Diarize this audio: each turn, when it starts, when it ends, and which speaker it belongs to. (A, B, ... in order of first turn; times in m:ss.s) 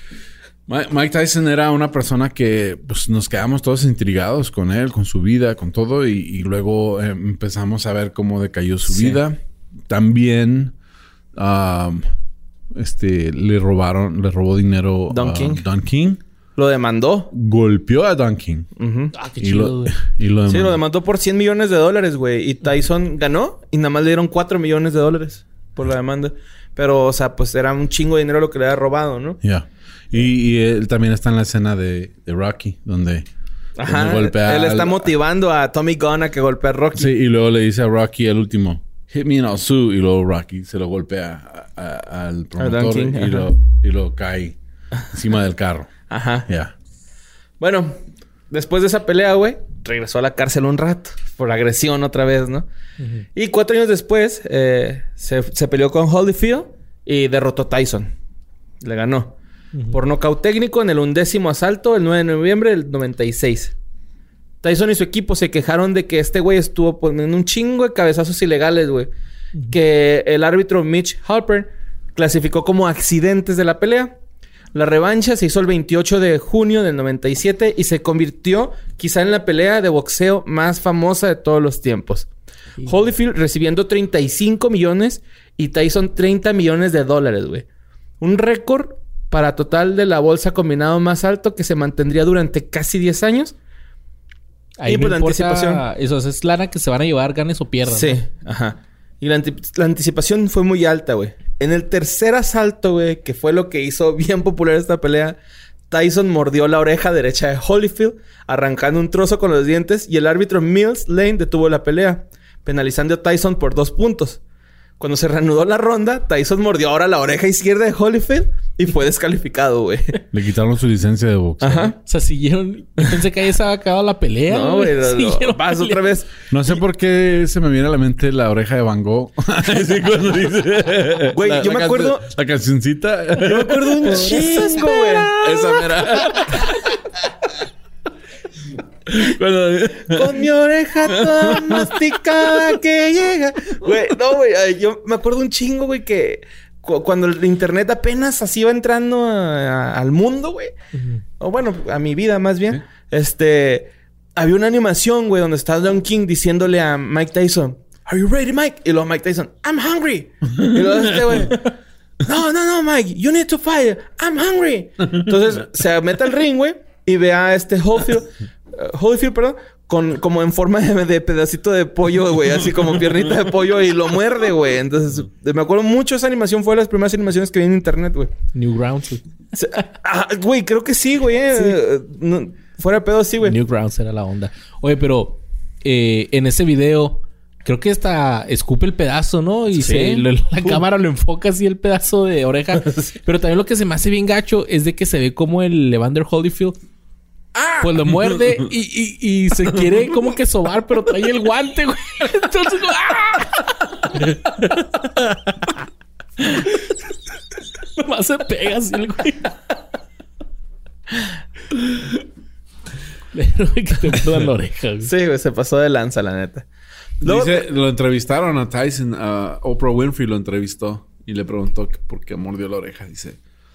0:00.7-0:10.7 A
0:08.9-0:09.2 B
0:11.4-0:12.1 A
0:12.7-0:16.2 A
0:15.1-0:15.6 B
0:16.6-0:17.3 B
0:17.3-0:18.7 A
0:18.8-0:19.1 B
0:19.1-0:20.0 C
0:19.4-0:20.8 A
0:20.5-0:29.4 B
0:29.4-0:33.2 A
0:33.8-0:37.1 B
0:33.8-0:35.1 A
0:37.0-0:44.6 A
0:42.6-0:43.5 B
0:45.1-0:46.7 A
0:46.1-0:46.5 B
0:47.6-0:48.0 B
0:48.5-0:52.7 B
0:53.0-0:53.3 C
0:53.4-0:58.1 B
0:58.8-0:59.4 B
0:59.9-1:03.7 B
1:04.6-1:09.1 B
1:09.7-1:14.2 B
1:14.7-1:22.3 B
1:22.8-1:27.6 B
1:28.2-1:33.6 B
1:34.8-1:38.2 C
1:34.9-1:35.8 B
1:37.9-1:45.4 B
1:45.9-1:54.4 B
1:55.0-2:00.2 B
2:00.3-2:01.9 A
2:01.6-2:02.0 B
2:02.0-2:06.1 C
2:04.5-2:06.4 B
2:06.5-2:16.8 A
2:11.3-2:12.2 B
2:13.4-2:16.5 B
2:14.2-2:15.0 C
2:19.1-2:20.4 A
2:20.1-2:30.7 B
2:21.3-2:21.9 A
2:30.9-2:31.2 C
2:31.4-2:58.3 B
2:58.5-2:59.2 C
2:59.5-3:03.6 B
3:03.4-3:16.8 C
3:09.7-3:10.8 B
3:12.8-3:13.2 B
3:17.8-3:25.6 C
3:26.4-3:26.9 C
3:28.0-3:29.5 C
3:33.3-3:35.1 C
3:35.0-3:36.6 B
3:37.2-3:43.4 A
3:37.2-3:37.6 B